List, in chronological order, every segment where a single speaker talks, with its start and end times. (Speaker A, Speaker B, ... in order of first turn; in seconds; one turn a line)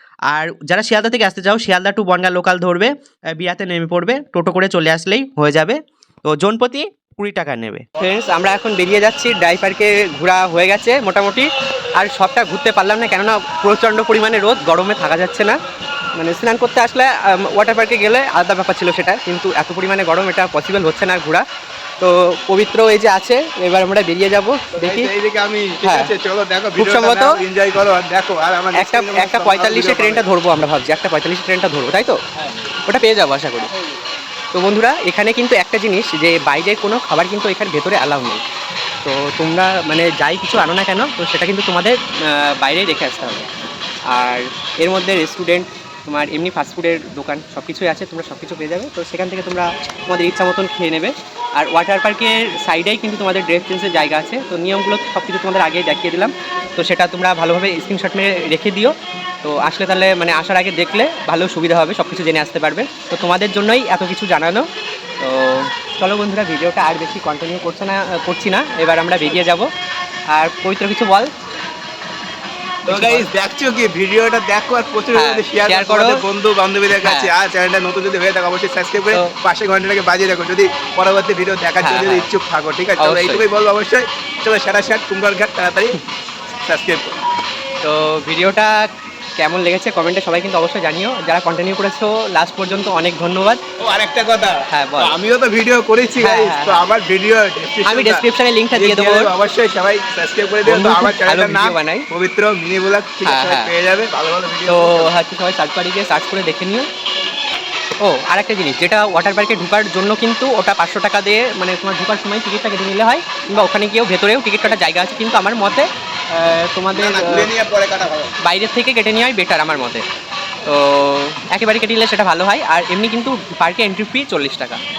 Speaker A: 0.3-7.8
Speaker B: 8.0-15.5
Speaker B: 16.1-21.4
Speaker B: 22.0-25.1
Speaker C: 24.8-30.2
Speaker B: 25.8-26.1
Speaker B: 26.8-27.4
Speaker B: 28.8-32.2
Speaker B: 32.9-33.7
Speaker B: 34.5-38.4
Speaker B: 39.0-43.4
Speaker B: 44.1-64.7
Speaker B: 65.2-69.7
Speaker B: 70.3-71.3
Speaker B: 72.9-73.3
Speaker C: 72.9-85.9
Speaker B: 75.1-76.2
Speaker B: 76.9-77.3
Speaker B: 81.8-82.3
Speaker B: 83.0-83.5
Speaker C: 86.6-87.1
Speaker B: 87.8-88.9
Speaker B: 89.4-93.6
Speaker C: 93.8-105.1
Speaker B: 94.7-95.2
Speaker B: 96.2-96.8
Speaker B: 97.8-99.3
Speaker B: 100.6-102.0
Speaker B: 103.2-103.7
Speaker B: 104.7-106.9
Speaker B: 108.0-117.5
Speaker C: 116.9-118.3
Speaker B: 118.4-120.0
Speaker B: 120.7-124.8